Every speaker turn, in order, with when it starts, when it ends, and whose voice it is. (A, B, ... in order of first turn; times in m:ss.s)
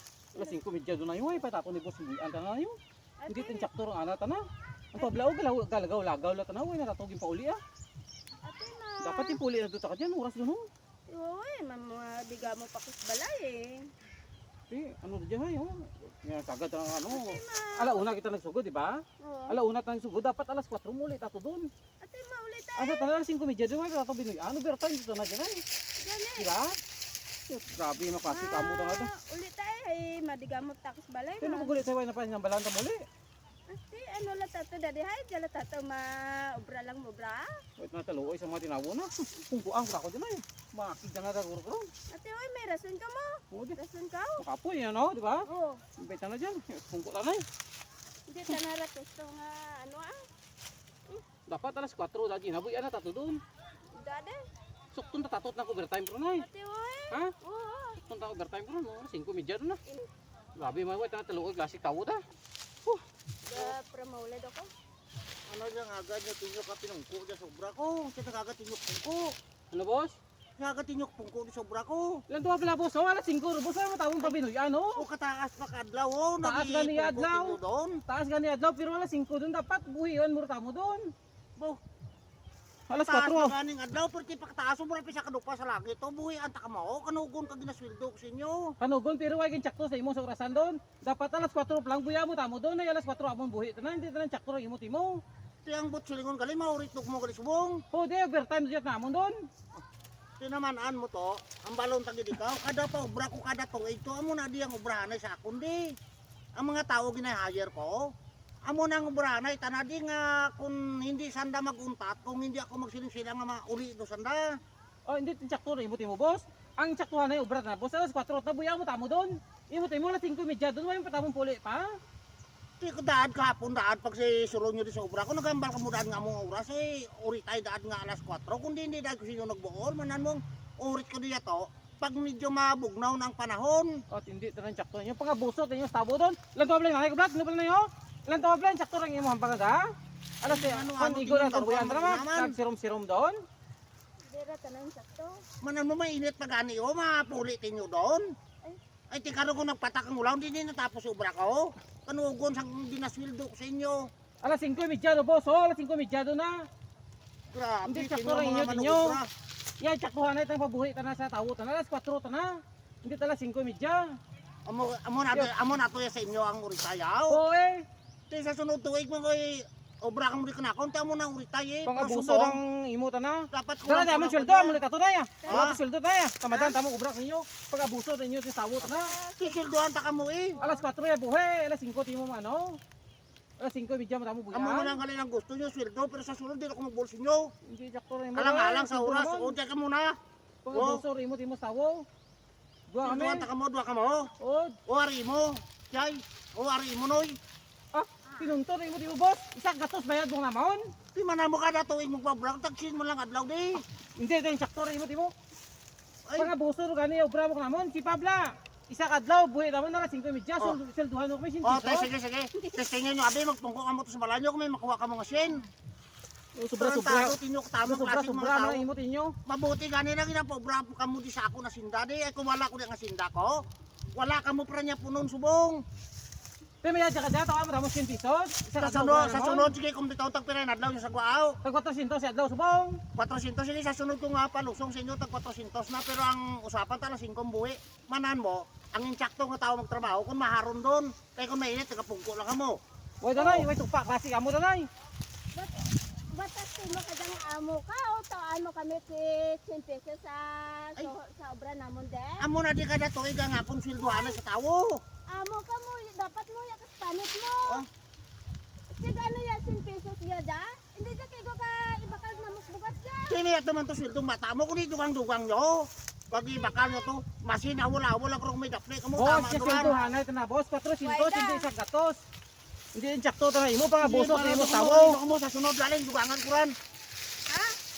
0:00.3-0:02.8 A
0:03.2-0:03.7 B
0:03.3-0:07.6 A
0:08.4-0:09.4 B
0:09.0-0:10.7 A
0:11.1-0:13.9 B
0:14.7-0:21.7 A
0:17.1-0:18.1 B
0:19.2-0:19.6 B
0:22.0-0:23.1 B
0:22.8-0:25.6 A
0:26.0-0:26.5 B
0:26.4-0:26.8 A
0:27.5-0:29.1 A
0:28.2-0:31.8 B
0:31.4-0:33.0 A
0:33.7-0:37.5 B
0:37.8-0:41.9 A
0:42.1-0:44.4 B
0:43.5-0:43.8 A
0:44.4-0:47.4 A
0:45.5-0:45.8 B
0:48.3-0:50.2 B
0:51.5-0:53.4 A
0:54.0-0:54.4 B
0:54.9-0:56.4 A
0:56.4-0:58.0 B
0:58.0-0:59.8 A
1:00.6-1:02.2 A
1:03.5-1:04.7 B
1:05.5-1:09.3 C
1:09.7-1:10.2 A
1:10.6-1:12.2 C
1:12.3-1:15.0 A
1:14.9-1:18.0 C
1:16.4-1:17.6 A
1:18.1-1:21.1 A
1:22.9-1:23.5 A
1:22.9-1:28.7 C
1:28.8-1:35.2 A
1:35.6-1:37.8 C
1:37.9-1:39.4 A
1:40.4-1:45.9 C
1:46.6-1:48.1 C
1:48.6-1:54.6 C
1:55.1-2:01.9 A
2:02.8-2:14.0 C
2:14.1-2:19.9 A
2:20.4-2:23.4 A
2:20.5-2:22.5 C
2:24.3-2:25.4 B
2:25.6-2:28.2 C
2:29.1-2:34.1 C
2:34.4-2:36.6 A
2:37.5-2:39.3 C
2:37.8-2:39.2 A
2:39.8-2:44.2 A
2:44.6-2:47.4 C
2:47.3-2:47.8 A
2:48.3-2:52.6 C
2:51.9-2:59.1 A
2:53.5-2:54.8 C
2:55.5-2:55.8 C
2:56.5-2:56.8 B
2:58.8-2:59.5 B
2:59.4-3:00.6 C
3:00.6-3:00.8 B
3:00.6-3:02.8 A
3:03.6-3:05.0 A
3:04.5-3:07.5 C
3:07.6-3:09.5 A
3:08.3-3:10.2 C
3:10.6-3:12.0 A
3:10.7-3:11.0 C
3:12.9-3:13.5 A
3:13.0-3:14.3 C
3:14.4-3:14.8 A
3:14.8-3:17.4 C
3:17.9-3:20.8 A
3:21.1-3:23.8 C
3:24.2-3:25.3 A
3:26.2-3:26.5 C
3:26.4-3:32.1 A
3:31.6-3:35.6 C
3:36.6-3:39.3 A
3:36.8-3:38.8 C
3:39.4-3:43.6 C
3:44.1-3:45.8 C
3:46.8-3:49.7 A
3:48.8-3:51.6 C
3:51.6-3:53.0 A
3:53.1-4:02.8 C
4:03.2-4:04.9 A
4:03.4-4:03.7 B
4:06.3-4:12.4 B
4:12.4-4:15.0 C
4:14.0-4:14.4 B
4:15.3-4:17.8 B
4:18.9-4:23.4 B
4:23.3-4:29.9 C
4:26.7-4:27.0 B
4:29.2-4:32.2 A
4:29.8-4:30.1 B
4:31.0-4:31.7 B
4:32.9-4:35.2 A
4:34.0-4:36.7 C
4:37.5-4:37.7 B